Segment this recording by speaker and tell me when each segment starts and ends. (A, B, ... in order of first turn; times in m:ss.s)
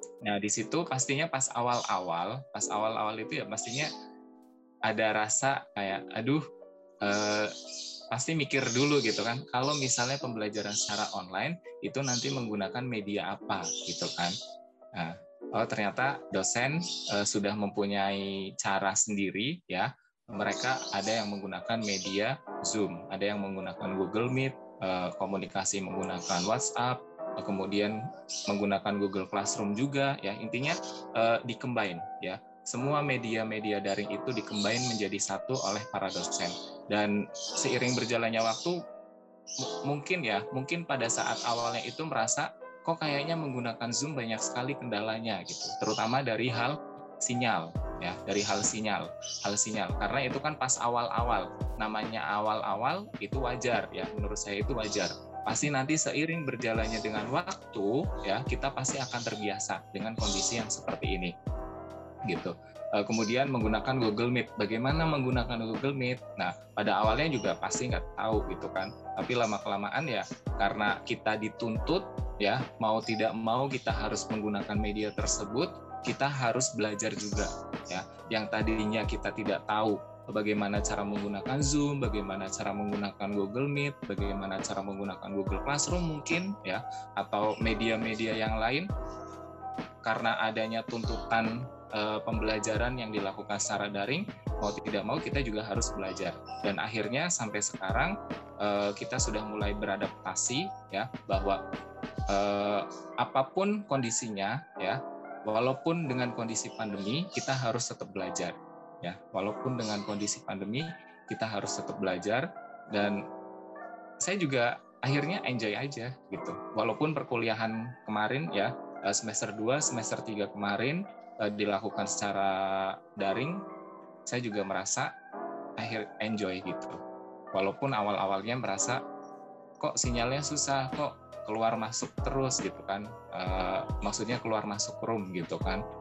0:00.2-0:03.9 A
0:04.9-0:06.4 A
0:07.0-0:07.5 A
0:08.1-0:14.4 A
0:14.9-0:28.0 A
0:28.5-0:38.8 A
0:39.6-1:01.3 A
1:02.3-1:28.9 A
1:30.0-1:41.6 A
1:42.3-1:53.2 A
1:54.2-2:03.6 A
2:04.3-2:05.1 A
2:05.8-2:07.0 A
2:07.5-2:09.0 A
2:09.8-2:15.8 A